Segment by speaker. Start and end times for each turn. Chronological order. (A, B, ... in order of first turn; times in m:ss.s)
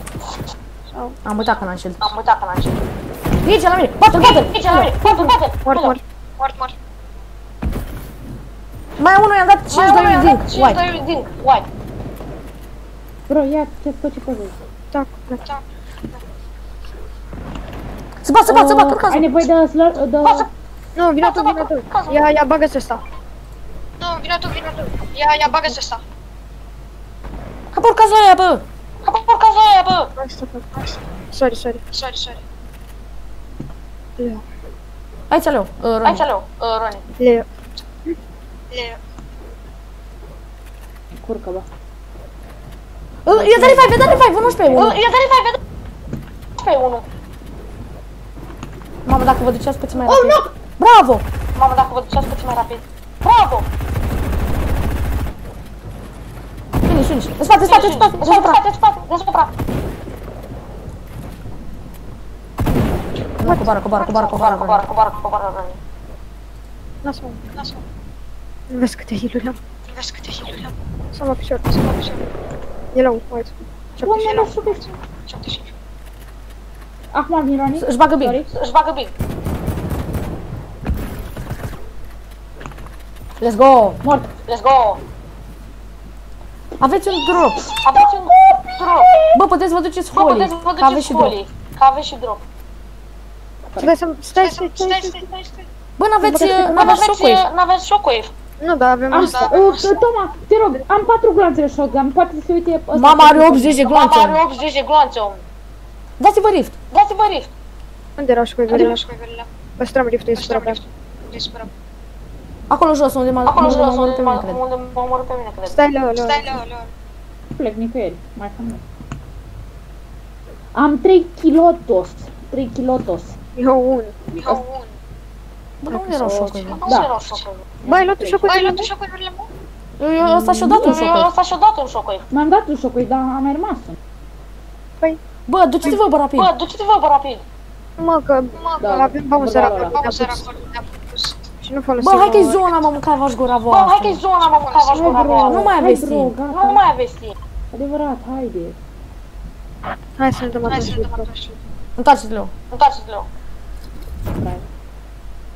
0:00.9-0:01.2 A
0:01.2-0:02.1 B
0:02.0-0:02.8 C
0:03.4-0:05.3 B
0:04.2-0:06.0 C
0:05.6-0:06.0 A
0:06.4-0:06.7 D
0:09.0-0:10.8 B
0:09.7-0:11.7 C
0:13.3-0:14.6 E
0:14.9-0:15.4 A
0:15.4-0:16.2 D
0:18.2-0:19.4 B
0:18.4-0:20.5 E
0:20.2-0:20.5 C
0:21.0-0:23.0 A
0:21.2-0:22.3 C
0:24.0-0:26.0 D
0:27.7-0:28.6 B
0:29.0-0:30.1 C
0:30.2-0:31.8 A
0:31.9-0:32.4 D
0:34.2-0:34.4 A
0:35.3-0:36.2 B
0:36.0-0:37.0 C
0:37.2-0:37.5 A
0:38.7-0:39.0 D
0:41.1-0:41.7 E
0:43.2-0:45.0 B
0:43.3-0:44.5 E
0:44.7-0:45.6 C
0:46.6-0:47.0 C
0:49.0-0:51.2 B
0:50.0-0:50.5 E
0:51.5-0:53.7 C
0:56.8-0:58.6 B
0:57.6-0:59.5 C
1:03.4-1:04.9 B
1:03.4-1:03.7 A
1:04.0-1:05.8 C
1:07.0-1:07.5 A
1:07.5-1:07.8 D
1:08.7-1:09.6 A
1:09.9-1:10.7 D
1:11.1-1:12.0 A
1:11.8-1:12.2 D
1:12.9-1:14.5 A
1:14.0-1:14.9 E
1:14.2-1:15.7 D
1:17.1-1:18.5 E
1:17.8-1:18.4 B
1:18.5-1:19.1 C
1:23.4-1:24.0 B
1:24.0-1:24.3 E
1:24.5-1:25.0 C
1:26.8-1:27.7 B
1:27.8-1:29.1 C
1:29.3-1:31.4 B
1:30.1-1:32.4 C
1:33.8-1:35.2 A
1:34.4-1:35.6 D
1:36.0-1:37.5 B
1:36.2-1:36.9 A
1:36.6-1:38.3 C
1:38.6-1:39.6 A
1:39.1-1:43.8 E
1:39.1-1:40.0 D
1:42.9-1:44.4 B
1:43.8-1:45.4 C
1:46.2-1:46.8 B
1:46.9-1:47.5 C
1:48.2-1:49.0 A
1:48.7-1:49.5 D
1:49.8-1:50.8 A
1:50.4-1:51.7 D
1:52.7-1:54.6 B
1:53.4-1:55.8 C
1:55.7-1:56.5 A
1:56.2-1:56.9 D
1:57.6-1:58.8 E
2:00.7-2:03.4 E
2:03.6-2:04.6 A
2:04.3-2:04.9 D
2:05.8-2:06.8 B
2:05.9-2:06.8 A
2:06.7-2:07.6 C
2:06.8-2:07.1 E
2:07.8-2:08.6 E
2:07.8-2:08.9 A
2:08.4-2:09.5 D
2:10.0-2:11.3 B
2:10.2-2:11.2 E
2:10.8-2:12.2 C
2:12.3-2:14.0 E
2:15.5-2:16.5 B
2:16.4-2:17.4 C
2:18.0-2:20.5 A
2:18.6-2:19.0 D
2:18.8-2:20.0 E
2:19.5-2:21.5 D
2:21.6-2:22.7 A
2:22.0-2:24.2 B
2:23.7-2:25.7 C
2:24.4-2:25.2 D
2:24.9-2:26.8 E
2:25.5-2:26.3 B
2:26.5-2:27.4 C
2:27.7-2:28.8 E
2:30.2-2:31.3 A
2:30.6-2:31.6 D
2:32.0-2:32.5 B
2:32.7-2:33.3 C
2:34.4-2:34.6 E